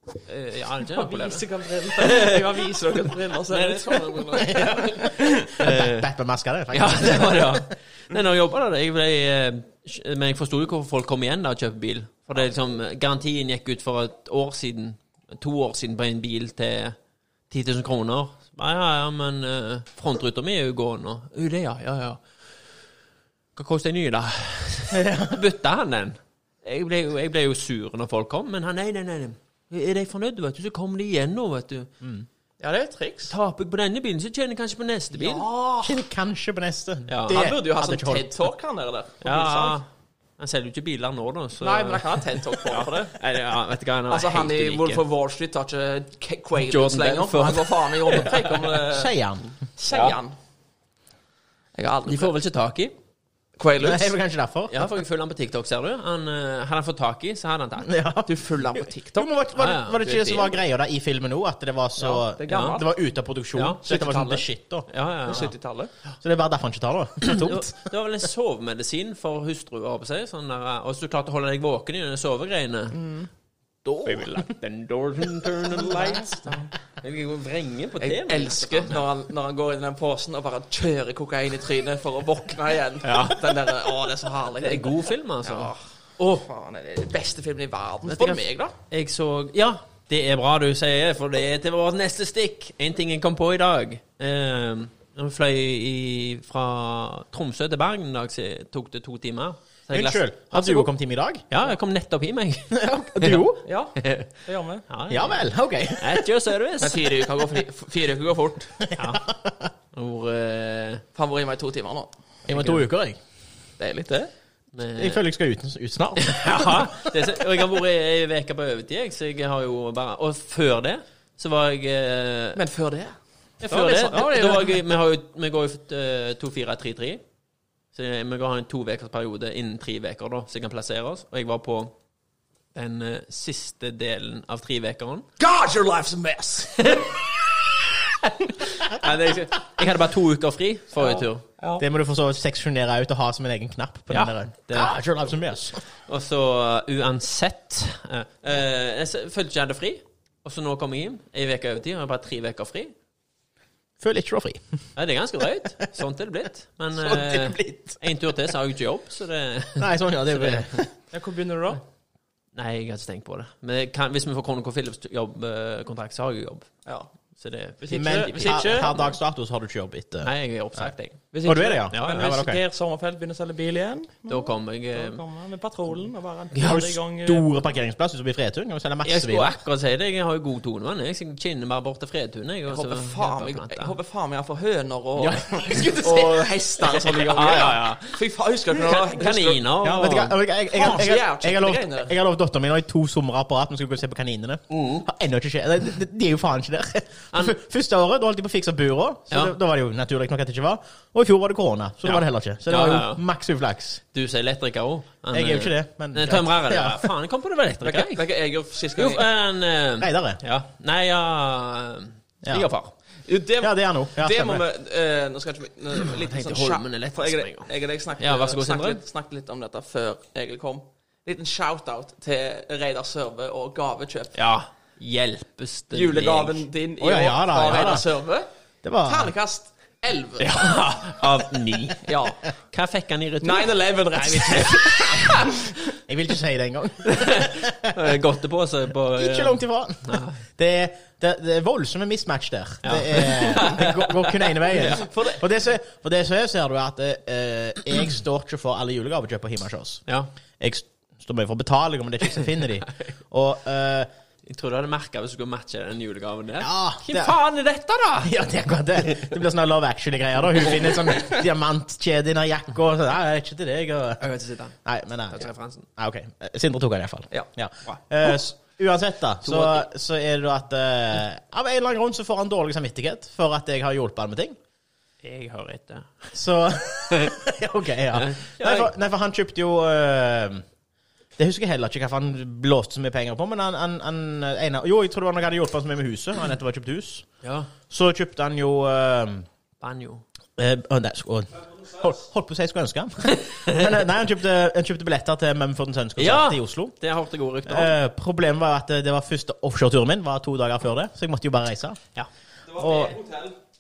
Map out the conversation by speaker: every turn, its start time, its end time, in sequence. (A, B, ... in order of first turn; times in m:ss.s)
0:00.2-0:01.4 A
0:00.9-0:05.5 B
0:02.0-0:02.6 A
0:03.3-0:06.1 A
0:04.4-0:07.7 C
0:06.7-0:17.0 A
0:17.5-0:22.4 A
0:23.5-0:31.9 A
0:24.9-0:25.4 C
0:32.0-0:32.3 C
0:32.6-0:33.3 B
0:33.3-0:35.4 A
0:35.1-0:36.0 B
0:35.8-0:38.3 C
0:37.1-0:37.4 A
0:37.3-0:39.8 B
0:39.2-0:39.9 A
0:40.4-0:42.1 A
0:41.6-0:43.2 B
0:42.7-0:45.0 A
0:44.1-0:49.1 B
0:46.6-0:48.6 A
0:48.9-0:49.5 C
0:49.8-0:50.3 B
0:49.9-0:50.2 A
0:51.7-0:52.3 B
0:52.1-0:52.9 A
0:53.6-0:54.2 B
0:53.8-0:54.9 C
0:54.7-0:57.9 A
0:57.8-1:04.9 C
0:58.3-0:59.3 B
0:59.6-1:00.4 A
1:02.0-1:02.9 B
1:02.5-1:02.8 A
1:03.5-1:03.8 A
1:03.8-1:04.4 B
1:04.9-1:05.5 A
1:05.2-1:05.9 B
1:06.2-1:07.9 C
1:07.2-1:13.0 A
1:12.9-1:13.3 B
1:13.9-1:14.5 C
1:14.0-1:19.0 A
1:15.9-1:16.7 B
1:18.0-1:28.7 B
1:23.0-1:23.5 A
1:24.6-1:26.4 A
1:28.1-1:40.9 A
1:39.9-1:41.4 C
1:41.5-1:44.4 A
1:42.7-1:43.6 C
1:43.6-1:44.9 B
1:44.9-1:45.4 A
1:45.1-1:46.3 C
1:46.0-1:47.0 A
1:46.8-1:48.8 B
1:48.9-1:49.7 C
1:49.0-1:49.2 A
1:49.9-1:51.0 A
1:51.1-1:52.1 B
1:52.4-1:53.2 C
1:52.5-1:52.8 A
1:53.8-1:54.3 B
1:54.7-1:55.2 A
1:55.0-1:57.0 C
1:56.2-2:02.6 A
2:02.6-2:04.8 B
2:03.6-2:07.2 A
2:07.9-2:11.9 A
2:12.7-2:15.2 A
2:15.4-2:17.0 B
2:16.8-2:17.1 A
2:18.2-2:21.4 A
2:21.0-2:21.8 B
2:21.8-2:25.8 C
2:24.1-2:24.9 A
2:26.0-2:32.9 A
2:34.0-2:34.6 C
2:35.0-2:40.7 A
2:36.9-2:38.0 C
2:39.8-2:40.9 C
2:41.1-2:41.8 B
2:42.5-2:46.7 A
2:47.4-2:49.1 A
2:47.8-2:48.9 B
2:47.9-2:50.9 C
2:50.2-2:51.2 A
2:51.3-2:57.5 B
2:51.4-2:52.6 C
2:51.9-2:52.3 A
2:54.3-2:55.2 A
2:56.6-2:59.6 C
2:59.0-3:03.9 A
3:02.7-3:09.7 B
3:05.2-3:06.4 C
3:07.3-3:08.2 A
3:08.8-3:10.4 A
3:09.8-3:24.0 C
3:10.7-3:12.1 B
3:14.7-3:15.0 A
3:22.0-3:23.2 A
3:24.1-3:28.2 A
3:25.3-3:27.1 C
3:27.8-3:29.3 B
3:29.0-3:32.9 A
3:30.0-3:30.4 C
3:33.3-3:44.4 B
3:33.6-3:34.6 C
3:36.0-3:37.7 A
3:38.2-3:39.0 A
3:44.3-3:46.6 A
3:45.9-3:48.5 B
3:47.0-3:48.0 C
3:48.8-3:49.3 C
3:49.0-3:50.7 B
3:50.4-3:52.1 A
3:52.0-3:52.4 B
3:52.7-3:53.7 A
3:53.4-3:55.8 B
3:56.1-3:57.9 C
3:57.0-4:00.4 A
3:59.1-4:10.0 C
4:02.8-4:05.1 A
4:05.0-4:05.4 B
4:10.6-4:14.1 C
4:14.4-4:18.4 A
4:16.6-4:17.4 C
4:18.2-4:24.2 C
4:24.2-4:24.7 A
4:24.8-4:34.6 C
4:25.3-4:25.8 A
4:29.4-4:29.8 A
4:35.2-4:36.3 A
4:36.3-4:40.6 C
4:38.1-4:38.9 A
4:41.4-4:47.3 C
4:47.4-4:47.7 A
4:47.9-4:49.5 C
4:49.8-4:50.2 A
4:50.6-4:56.9 C
4:56.2-4:57.9 A
4:57.6-5:02.0 C
5:02.7-5:03.6 B
5:02.8-5:03.2 C